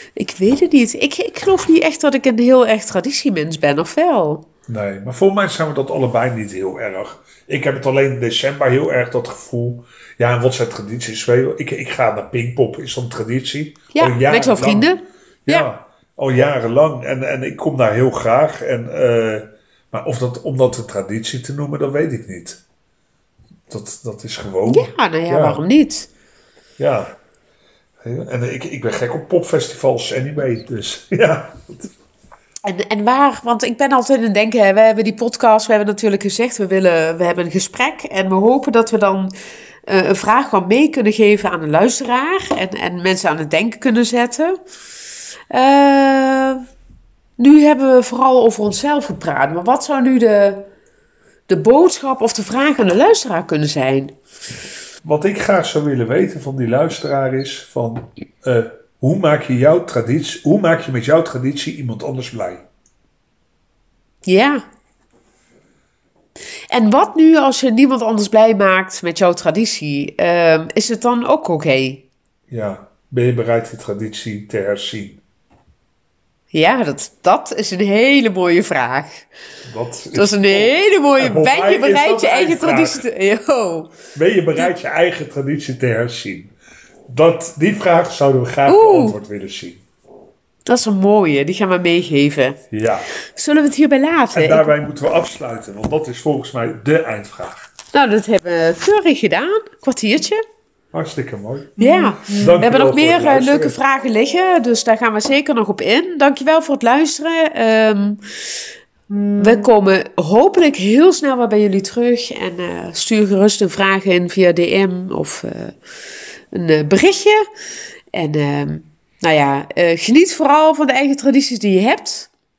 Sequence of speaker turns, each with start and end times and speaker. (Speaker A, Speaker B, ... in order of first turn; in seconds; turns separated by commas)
Speaker A: 0.1-4.5, Speaker B: 4.7-14.9, Speaker A: 13.9-15.7, Speaker B: 15.5-22.6, Speaker B: 23.7-25.6, Speaker A: 24.7-26.1, Speaker B: 26.8-27.1, Speaker B: 28.0-31.9, Speaker A: 32.6-39.3, Speaker A: 39.9-44.6, Speaker A: 45.5-46.6, Speaker A: 47.4-50.7, Speaker A: 51.5-54.1, Speaker B: 55.0-62.7, Speaker A: 64.2-64.6, Speaker A: 66.7-72.0, Speaker B: 72.5-75.2, Speaker A: 76.5-79.3, Speaker B: 79.7-83.0, Speaker A: 80.1-83.9, Speaker B: 84.1-86.5, Speaker B: 87.1-89.8, Speaker A: 88.7-89.1, Speaker A: 90.7-92.6, Speaker B: 92.7-93.1, Speaker A: 93.3-94.7, Speaker B: 94.3-97.7, Speaker A: 97.9-100.4, Speaker B: 100.9-103.8, Speaker A: 101.8-108.2, Speaker A: 109.4-115.8, Speaker A: 116.5-117.4, Speaker A: 118.1-122.3